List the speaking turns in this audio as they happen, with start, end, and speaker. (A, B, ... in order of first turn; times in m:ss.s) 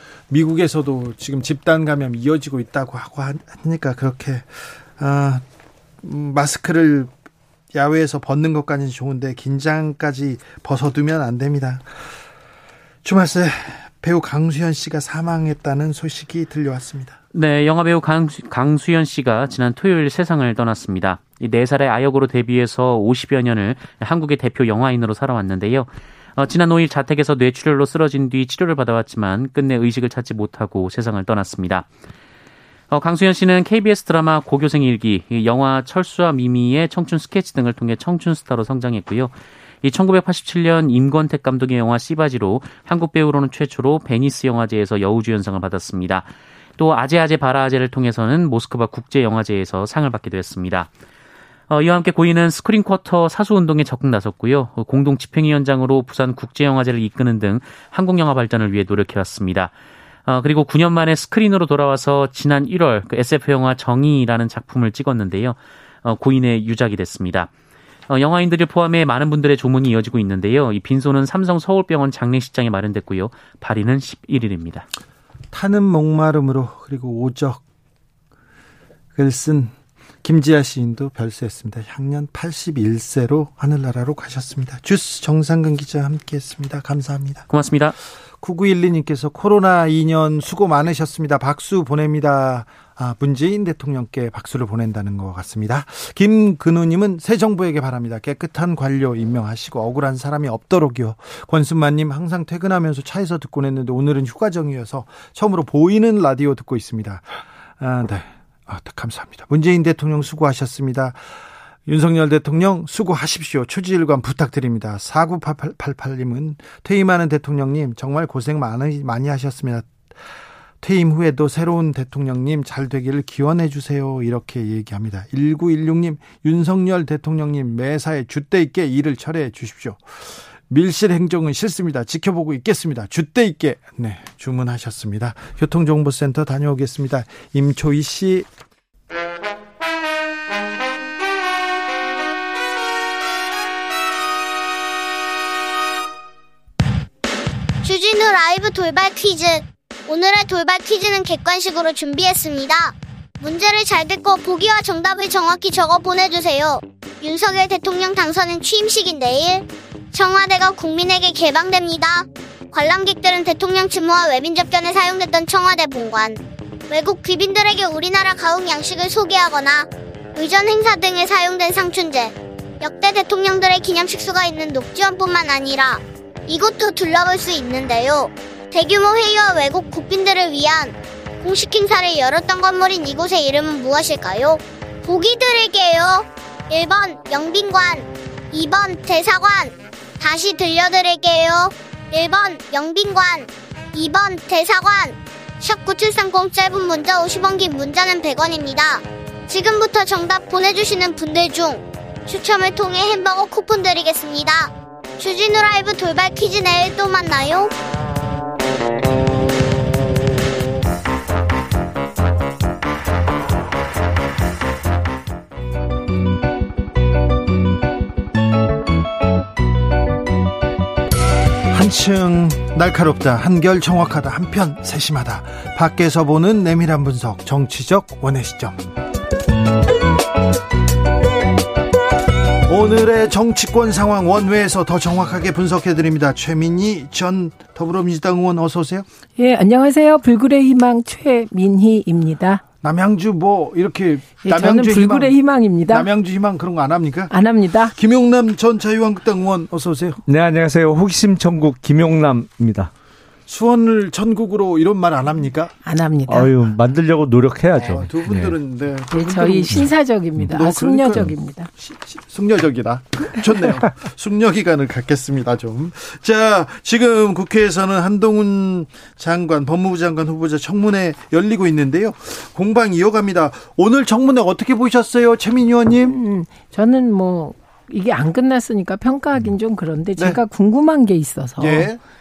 0:00.3-0:05.4 A
0:06.0-0:07.1 A
0:07.7-0:11.9 A
0:13.0-0:17.2 A
0:17.3-0:31.9 B
0:32.9-0:50.9 B
0:51.7-0:59.7 B
1:00.2-1:07.5 B
1:08.1-1:14.8 B
1:15.5-1:17.6 A
1:19.2-1:27.5 A
1:27.5-1:28.0 B
1:28.4-1:51.2 A
1:51.8-2:00.1 A
2:00.8-2:18.5 A
2:27.8-3:27.7 C
3:41.7-3:48.8 A
3:52.6-3:59.1 A
3:59.4-4:02.6 D
4:02.8-4:05.4 A
4:04.4-4:06.1 D
4:05.9-4:07.3 A
4:07.3-4:07.9 D
4:07.9-4:10.2 A
4:10.3-4:12.9 E
4:13.5-4:15.7 A
4:15.8-4:16.5 D
4:16.3-4:18.5 E
4:17.8-4:19.9 A
4:19.1-4:21.7 D
4:20.5-4:36.2 A
4:36.0-4:41.9 D
4:41.6-4:42.0 A